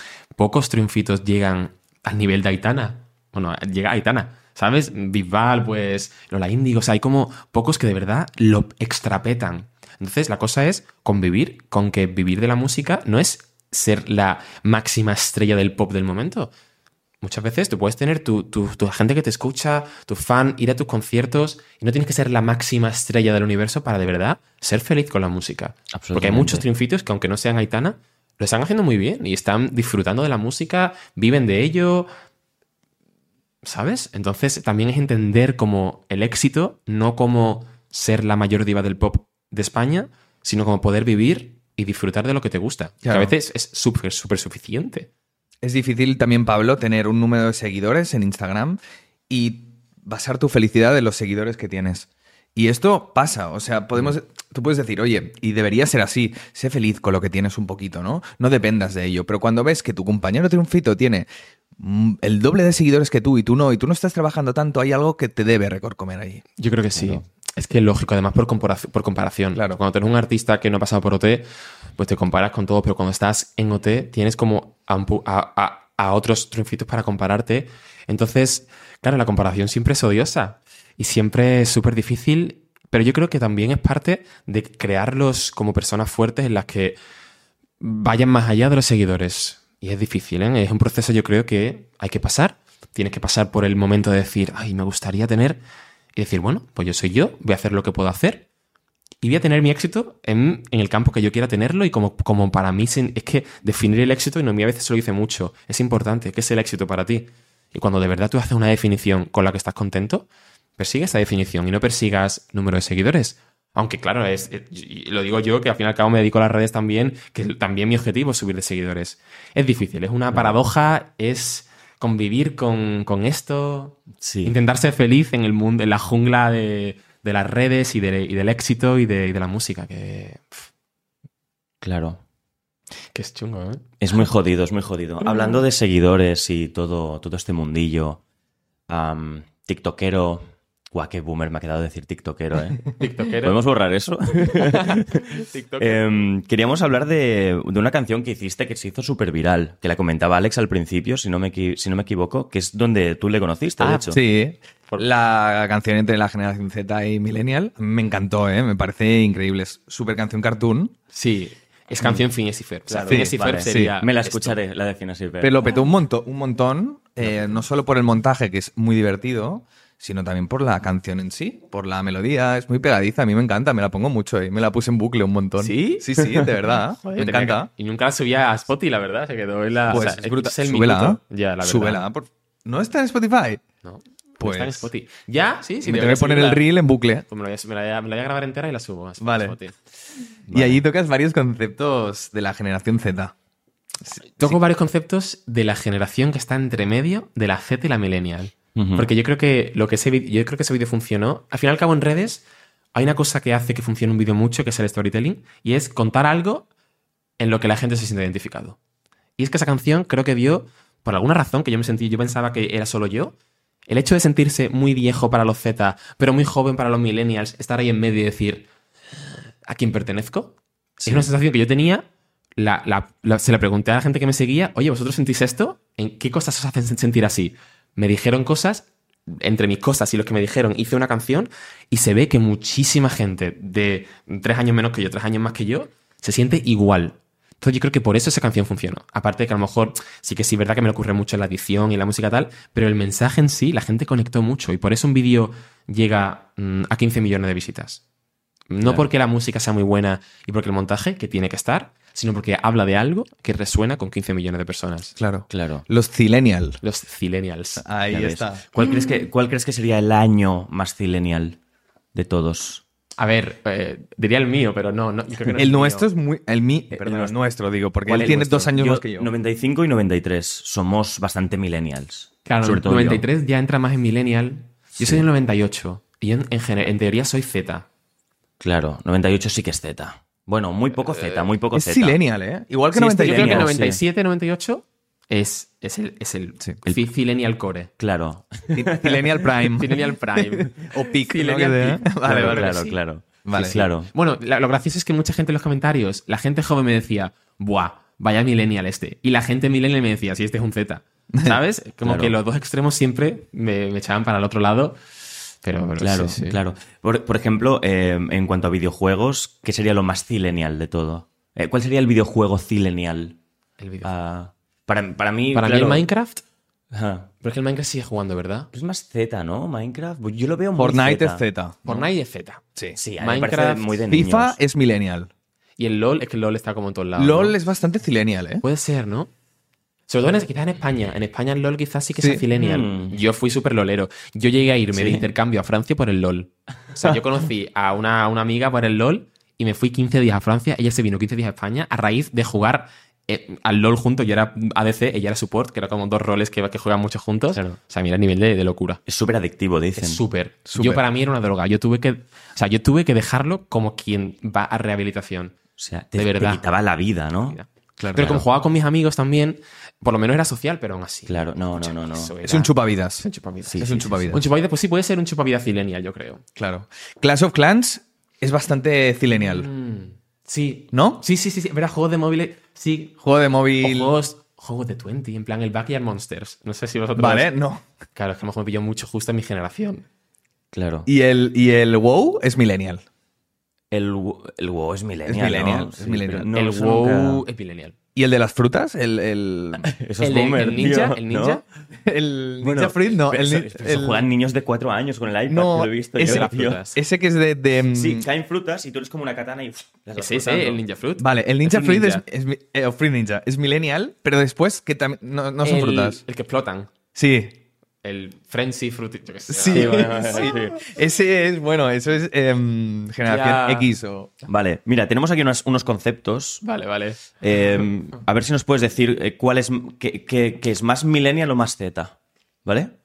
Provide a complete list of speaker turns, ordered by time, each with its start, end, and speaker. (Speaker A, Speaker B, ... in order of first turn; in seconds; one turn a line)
Speaker A: 0.4-16.5
Speaker A: 17.2-32.1
Speaker B: 25.9-26.7
Speaker A: 33.6-45.1
Speaker C: 43.0-43.3
Speaker C: 45.6-66.4
Speaker A: 66.6-71.5
Speaker A: 72.0-87.0
Speaker A: 87.8-95.6
Speaker A: 96.2-98.5
Speaker A: 99.2-110.3
Speaker A: 110.8-130.7
Speaker B: 124.2-124.6
Speaker B: 131.8-132.2
Speaker A: 133.1-133.9
Speaker B: 134.0-138.2
Speaker B: 138.9-154.2
Speaker A: 143.0-143.6
Speaker A: 144.6-146.0
Speaker A: 153.8-154.2
Speaker C: 154.1-160.9
Speaker A: 161.1-164.6
Speaker B: 162.9-165.7
Speaker C: 163.1-163.9
Speaker C: 165.4-177.7
Speaker A: 175.6-182.0
Speaker C: 179.9-183.6
Speaker A: 183.8-186.7
Speaker C: 184.4-184.9
Speaker C: 185.8-187.2
Speaker A: 187.3-189.8
Speaker C: 189.2-189.6
Speaker C: 190.5-193.3
Speaker C: 194.1-194.6
Speaker A: 194.4-202.4
Speaker B: 198.8-199.1
Speaker A: 202.9-206.7
Speaker A: 207.4-208.8
Speaker A: 209.4-213.4
Speaker A: 213.9-218.7
Speaker A: 219.7-222.1
Speaker A: 222.6-248.0
Speaker A: 248.7-255.2
Speaker C: 255.2-256.8
Speaker B: 255.5-255.8
Speaker A: 256.8-257.8
Speaker C: 257.8-258.6
Speaker B: 258.1-261.6
Speaker B: 262.1-262.8
Speaker A: 263.2-266.1
Speaker C: 265.6-269.3
Speaker B: 267.0-267.3
Speaker B: 268.1-273.3
Speaker A: 272.5-277.9
Speaker B: 275.0-275.3
Speaker B: 278.6-282.2
Speaker A: 281.1-281.5
Speaker C: 281.7-283.7
Speaker B: 282.9-284.0
Speaker A: 283.2-287.9
Speaker B: 288.0-289.4
Speaker C: 288.7-292.8
Speaker A: 289.8-293.0
Speaker B: 292.2-294.1
Speaker C: 293.4-293.9
Speaker A: 294.1-305.0
Speaker B: 302.0-302.4
Speaker A: 305.6-306.6
Speaker B: 306.0-313.4
Speaker A: 313.8-314.1
Speaker B: 314.0-316.1
Speaker A: 315.5-316.4
Speaker B: 316.9-317.3
Speaker A: 317.4-318.7
Speaker B: 318.7-321.4
Speaker C: 320.8-322.1
Speaker A: 321.9-322.6
Speaker B: 323.0-324.6
Speaker A: 323.2-324.0
Speaker C: 324.1-325.3
Speaker A: 325.8-327.6
Speaker C: 327.2-328.6
Speaker A: 328.6-329.3
Speaker A: 330.1-349.0
Speaker C: 332.2-332.4
Speaker B: 332.5-333.2
Speaker B: 334.9-335.3
Speaker B: 349.1-350.2
Speaker A: 349.9-355.6
Speaker C: 350.7-351.0
Speaker B: 355.8-357.6
Speaker A: 356.1-356.6
Speaker A: 357.5-366.4
Speaker C: 358.0-358.4
Speaker B: 358.2-358.4
Speaker B: 361.3-362.3
Speaker C: 362.4-363.2
Speaker B: 363.7-364.1
Speaker C: 363.8-364.4
Speaker C: 366.6-369.7
Speaker A: 369.4-373.2
Speaker C: 370.9-371.2
Speaker C: 373.2-374.1
Speaker A: 373.8-377.5
Speaker C: 377.2-377.8
Speaker A: 378.2-380.1
Speaker B: 380.7-381.1
Speaker C: 381.1-383.0
Speaker B: 383.9-387.4
Speaker C: 385.3-386.5
Speaker A: 386.5-387.9
Speaker C: 388.2-389.9
Speaker B: 389.8-391.6
Speaker A: 390.2-391.6
Speaker C: 392.1-394.2
Speaker B: 392.6-396.9
Speaker C: 395.5-398.2
Speaker A: 396.2-397.0
Speaker B: 397.9-400.8
Speaker A: 400.1-402.2
Speaker C: 401.2-406.2
Speaker A: 405.6-406.9
Speaker C: 407.1-407.6
Speaker A: 408.0-410.5
Speaker C: 409.5-414.3
Speaker B: 409.7-410.8
Speaker A: 413.3-413.9
Speaker B: 414.5-416.6
Speaker A: 416.6-417.3
Speaker B: 417.4-422.9